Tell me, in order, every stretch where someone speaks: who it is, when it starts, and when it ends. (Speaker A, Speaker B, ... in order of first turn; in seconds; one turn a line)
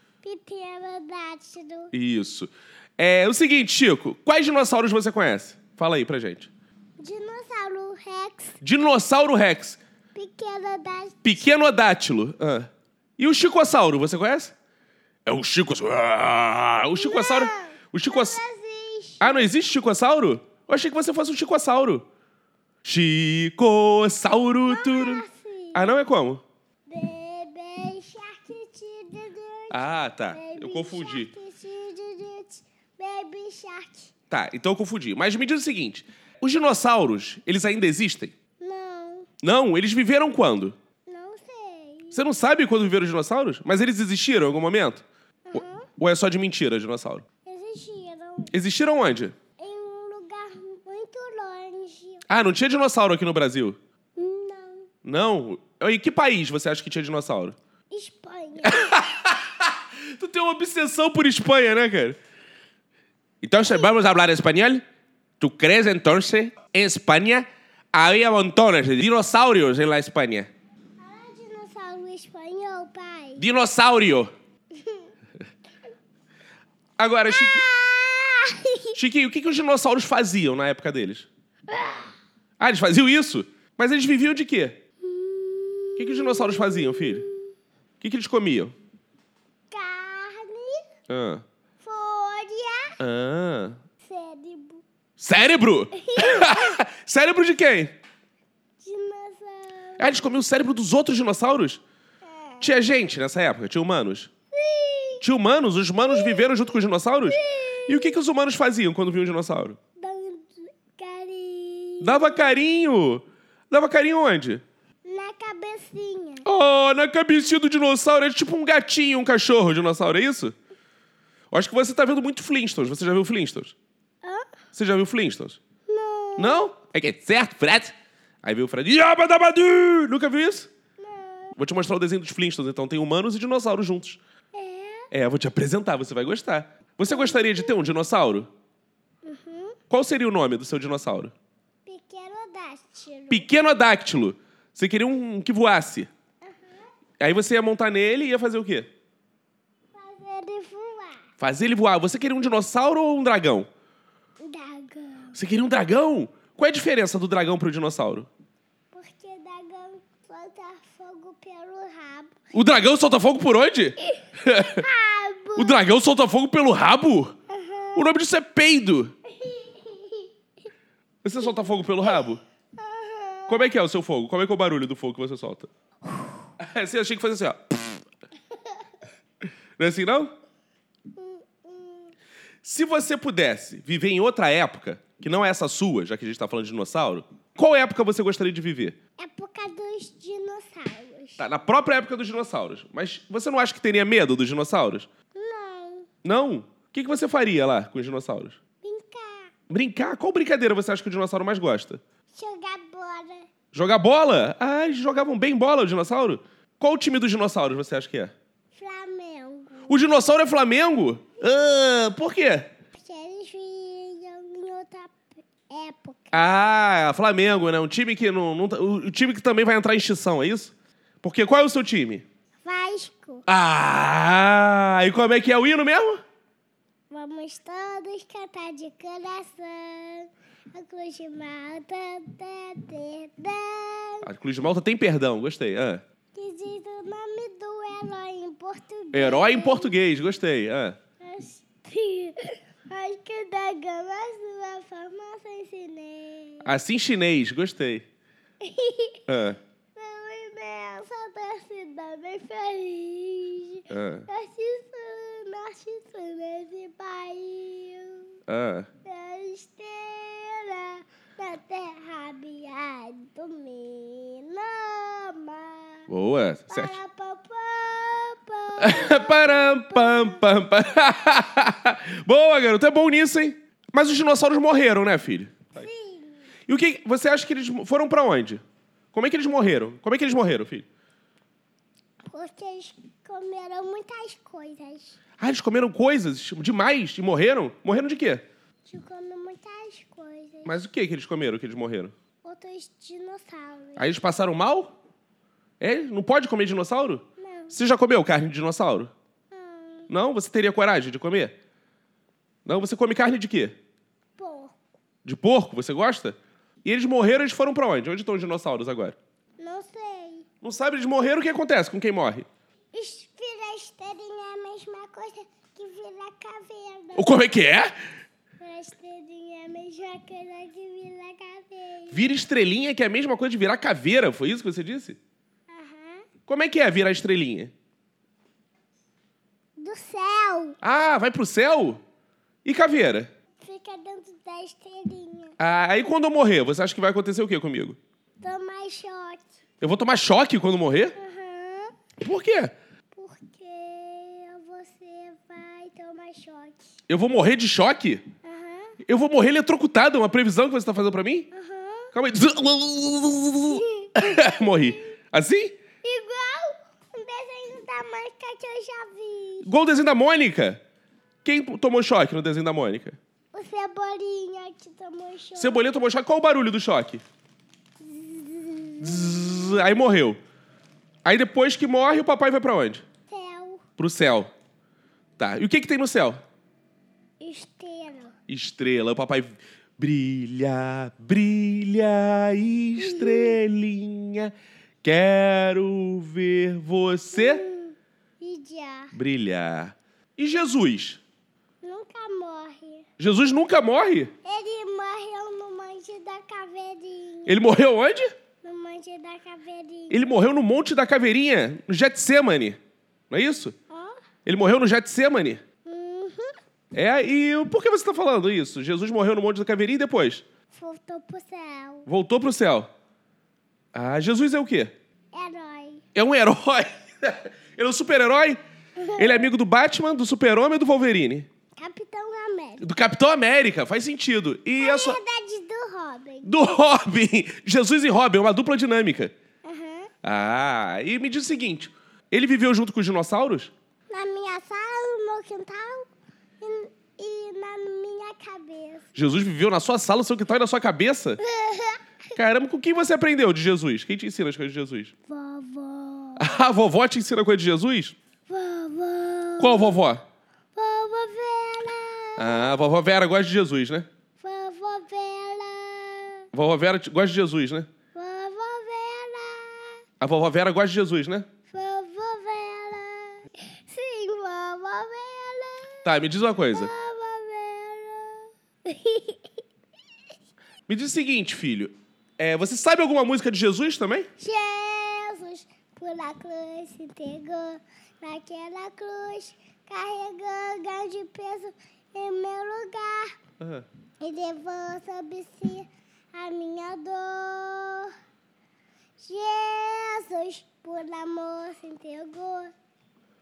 Speaker A: 0.2-1.9
Speaker B: 1.9-6.5
Speaker A: 7.0-8.6
Speaker B: 8.6-9.8
Speaker A: 10.1-11.4
Speaker B: 11.2-14.5
Speaker B: 15.2-18.4
Speaker A: 16.9-19.5
Speaker B: 19.2-22.0
Speaker B: 22.8-26.4
Speaker A: 24.7-25.9
Speaker A: 26.9-34.1
Speaker B: 29.7-31.3
Speaker B: 34.3-38.3
Speaker A: 38.6-39.3
Speaker B: 39.4-40.7
Speaker A: 41.1-42.2
Speaker B: 42.1-47.2
Speaker A: 45.5-45.9
Speaker A: 47.4-48.5
Speaker B: 48.5-49.3
Speaker A: 49.6-52.2
Speaker B: 52.3-53.8
Speaker A: 54.1-54.9
Speaker B: 55.0-57.5
Speaker A: 57.9-59.0
Speaker B: 58.6-62.2
Speaker B: 63.4-64.8
Speaker B: 65.4-70.5
Speaker A: 71.0-73.4
Speaker B: 73.4-74.3
Speaker A: 74.8-75.0
Speaker B: 77.0-77.6
Speaker A: 77.3-79.0
Speaker B: 78.9-81.3
Speaker A: 81.7-82.1
Speaker B: 82.6-84.8
Speaker A: 85.0-87.5
Speaker B: 86.0-87.2
Speaker B: 88.0-88.7
Speaker A: 89.7-90.8
Speaker B: 91.1-91.4
Speaker A: 91.8-93.0
Speaker B: 93.0-93.8
Speaker A: 94.0-94.8
Speaker B: 95.2-98.0
Speaker A: 96.0-96.8
Speaker A: 98.8-100.4
Speaker B: 100.0-101.8
Speaker A: 102.2-102.9
Speaker B: 102.6-104.3
Speaker A: 104.5-105.2
Speaker B: 105.2-109.8
Speaker A: 106.0-106.6
Speaker A: 107.3-108.1
Speaker A: 110.0-112.5
Speaker B: 112.0-114.6
Speaker A: 115.0-116.4
Speaker B: 116.4-120.5
Speaker B: 121.5-123.7
Speaker A: 124.2-124.5
Speaker B: 124.7-125.6
Speaker A: 125.9-126.6
Speaker B: 126.4-130.7
Speaker A: 131.0-131.6
Speaker B: 131.6-134.2
Speaker A: 134.5-135.1
Speaker B: 135.1-138.5
Speaker A: 137.1-137.8
Speaker A: 139.2-139.8
Speaker B: 139.9-141.3
Speaker A: 141.8-143.5
Speaker B: 143.3-146.1
Speaker A: 146.4-146.8
Speaker B: 147.2-148.9
Speaker A: 149.9-151.3
Speaker B: 151.4-153.7
Speaker A: 154.4-155.4
Speaker B: 155.3-158.3
Speaker A: 158.9-162.3
Speaker B: 162.5-164.8
Speaker A: 164.5-165.8
Speaker B: 165.6-167.3
Speaker A: 167.5-168.0
Speaker B: 167.9-169.1
Speaker A: 169.3-170.3
Speaker B: 171.2-172.4
Speaker A: 171.4-172.2
Speaker A: 172.8-173.7
Speaker B: 173.5-175.7
Speaker B: 176.6-178.0
Speaker B: 179.8-180.3
Speaker A: 181.1-182.1
Speaker B: 182.6-189.0
Speaker A: 189.2-191.4
Speaker B: 191.4-195.1
Speaker A: 195.3-196.1
Speaker B: 196.2-198.6
Speaker A: 198.8-199.5
Speaker B: 199.7-202.0
Speaker A: 202.3-203.5
Speaker B: 203.7-208.3
Speaker A: 208.7-210.1
Speaker B: 209.9-212.7
Speaker A: 212.9-216.4
Speaker B: 216.3-222.2
Speaker A: 222.6-223.4
Speaker B: 223.5-226.2
Speaker A: 227.1-234.3
Speaker B: 234.2-236.0
Speaker A: 236.3-239.9
Speaker B: 239.1-241.0
Speaker A: 241.2-246.7
Speaker B: 246.6-248.1
Speaker A: 248.6-249.2
Speaker B: 249.3-249.6
Speaker A: 249.9-258.4
Speaker B: 253.9-254.3
Speaker B: 258.5-258.9
Speaker A: 259.0-266.1
Speaker B: 266.1-267.0
Speaker A: 266.7-270.4
Speaker B: 268.8-275.7
Speaker A: 275.7-276.5
Speaker B: 276.7-278.6
Speaker B: 279.1-280.9
Speaker A: 282.3-285.2
Speaker B: 285.4-288.4
Speaker A: 288.8-290.8
Speaker B: 290.6-292.1
Speaker A: 292.4-294.1
Speaker B: 294.0-294.9
Speaker B: 295.8-299.1
Speaker A: 297.4-297.7
Speaker A: 299.5-300.1
Speaker B: 300.1-301.5
Speaker B: 302.6-303.7
Speaker A: 304.4-304.7
Speaker B: 305.2-309.1
Speaker A: 309.6-310.4
Speaker B: 310.6-312.4
Speaker A: 312.9-317.5
Speaker B: 317.1-317.9
Speaker A: 318.6-322.3
Speaker B: 322.1-325.2
Speaker A: 325.7-326.3
Speaker B: 326.5-327.7
Speaker A: 329.8-330.8
Speaker B: 330.8-332.0
Speaker B: 332.6-333.3
Speaker A: 333.6-335.6
Speaker B: 335.6-338.0
Speaker A: 338.4-339.4
Speaker B: 339.8-341.1
Speaker A: 341.1-341.9
Speaker B: 342.2-342.7
Speaker A: 343.1-346.9
Speaker B: 347.1-348.2
Speaker A: 348.4-348.9
Speaker B: 349.1-351.5
Speaker A: 351.5-352.1
Speaker B: 352.1-355.8
Speaker A: 353.7-354.1
Speaker A: 356.0-359.7
Speaker B: 359.6-360.8
Speaker B: 361.4-363.2
Speaker A: 363.5-365.9
Speaker B: 365.6-367.2
Speaker A: 368.0-369.5
Speaker B: 369.0-370.4
Speaker B: 371.2-373.0
Speaker A: 373.3-373.8
Speaker B: 374.0-374.5
Speaker B: 375.4-376.4
Speaker A: 377.4-378.3
Speaker B: 378.5-387.6
Speaker A: 383.0-383.6
Speaker A: 387.3-389.1
Speaker B: 389.1-391.2
Speaker A: 391.8-393.1
Speaker B: 393.2-394.3
Speaker A: 394.4-397.6
Speaker B: 397.4-398.3
Speaker A: 398.6-400.3
Speaker B: 400.1-402.8
Speaker B: 403.3-403.7
Speaker A: 403.9-404.2
Speaker B: 404.4-405.6
Speaker A: 405.8-406.5
Speaker B: 406.9-410.4
Speaker A: 410.7-412.1
Speaker B: 412.1-412.9
Speaker B: 413.9-414.9
Speaker A: 415.3-416.0
Speaker B: 416.1-418.6
Speaker A: 419.0-419.5
Speaker B: 419.2-421.5
Speaker A: 421.8-422.9
Speaker B: 422.8-425.2
Speaker A: 424.8-426.5
Speaker B: 426.4-429.3
Speaker A: 429.6-430.1
Speaker B: 430.2-433.7
Speaker A: 434.1-436.1
Speaker A: 436.6-439.1
Speaker B: 439.1-441.4
Speaker A: 441.4-442.0
Speaker B: 442.4-445.1
Speaker A: 445.3-446.4
Speaker B: 446.4-448.1
Speaker A: 448.5-449.9
Speaker B: 449.6-450.2
Speaker A: 450.7-452.7
Speaker B: 452.4-454.1
Speaker A: 454.4-456.4
Speaker B: 456.5-457.9
Speaker A: 458.1-460.0
Speaker B: 460.2-461.5
Speaker A: 461.7-466.1
Speaker B: 466.0-466.9
Speaker A: 466.7-469.4
Speaker B: 470.9-474.3
Speaker A: 474.4-483.4
Speaker B: 483.6-483.9
Speaker A: 484.2-488.1
Speaker A: 489.2-492.7